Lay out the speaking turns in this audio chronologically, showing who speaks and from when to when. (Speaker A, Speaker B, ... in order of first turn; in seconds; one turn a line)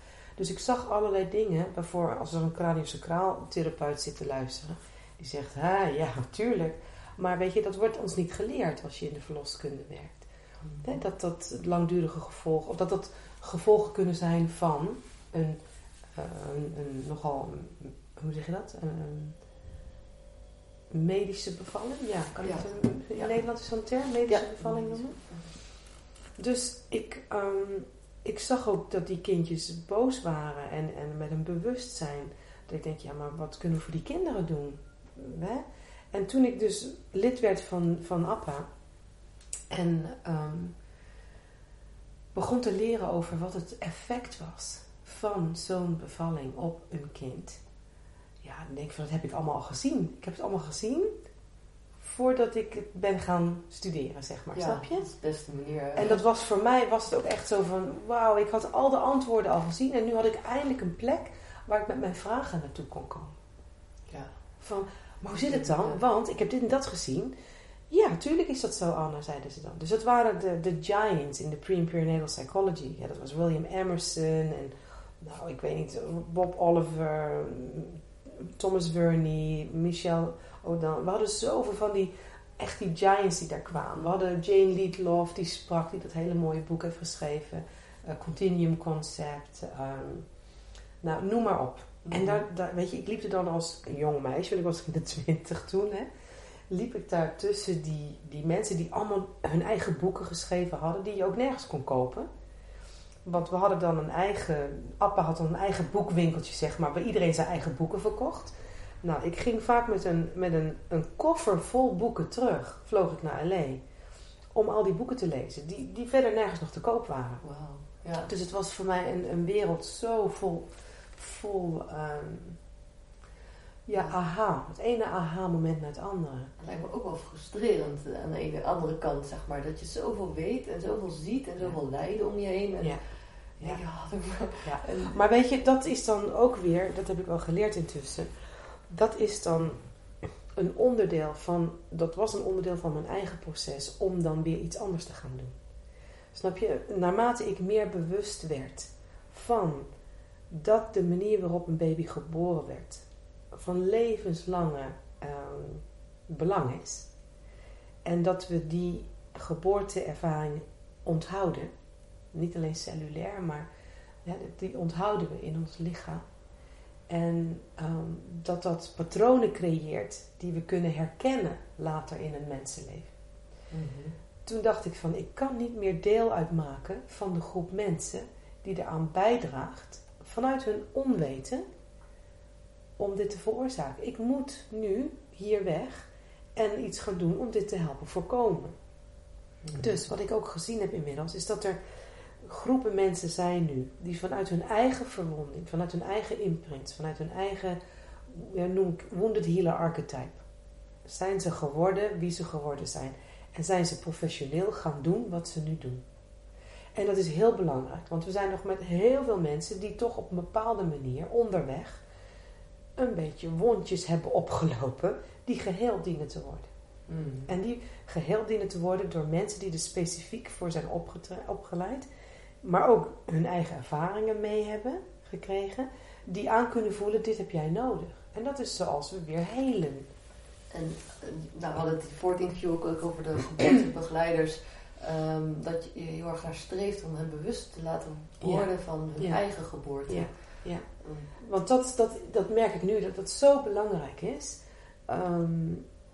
Speaker A: 0.4-10.2
Speaker B: 10.6-11.0
Speaker A: 10.8-15.6
Speaker A: 16.1-19.4
Speaker A: 20.9-25.2
Speaker B: 22.4-23.3
Speaker B: 24.3-25.5
Speaker A: 26.4-38.7
Speaker A: 39.7-40.7
Speaker A: 42.3-47.6
Speaker A: 48.4-51.1
Speaker A: 52.0-55.1
Speaker B: 54.5-56.2
Speaker A: 55.9-63.4
Speaker A: 64.6-67.3
Speaker B: 65.3-66.0
Speaker A: 67.9-90.3
Speaker A: 91.0-96.1
Speaker B: 92.0-92.4
Speaker A: 96.7-102.3
Speaker A: 103.2-113.8
Speaker A: 114.5-117.4
Speaker B: 117.4-118.3
Speaker A: 118.2-122.6
Speaker A: 123.8-126.8
Speaker B: 126.6-135.2
Speaker A: 134.6-139.8
Speaker A: 140.5-145.6
Speaker A: 146.3-149.9
Speaker A: 150.5-157.1
Speaker A: 158.0-161.7
Speaker A: 162.3-163.7
Speaker A: 164.2-166.2
Speaker A: 167.1-173.1
Speaker B: 173.7-174.1
Speaker A: 174.4-181.6
Speaker A: 183.0-188.7
Speaker B: 189.6-189.9
Speaker A: 189.7-191.8
Speaker A: 192.4-200.4
Speaker A: 201.1-206.0
Speaker A: 206.9-212.0
Speaker A: 213.0-216.7
Speaker B: 217.1-217.5
Speaker A: 217.5-222.1
Speaker A: 222.6-230.1
Speaker B: 230.7-241.3
Speaker A: 238.4-245.8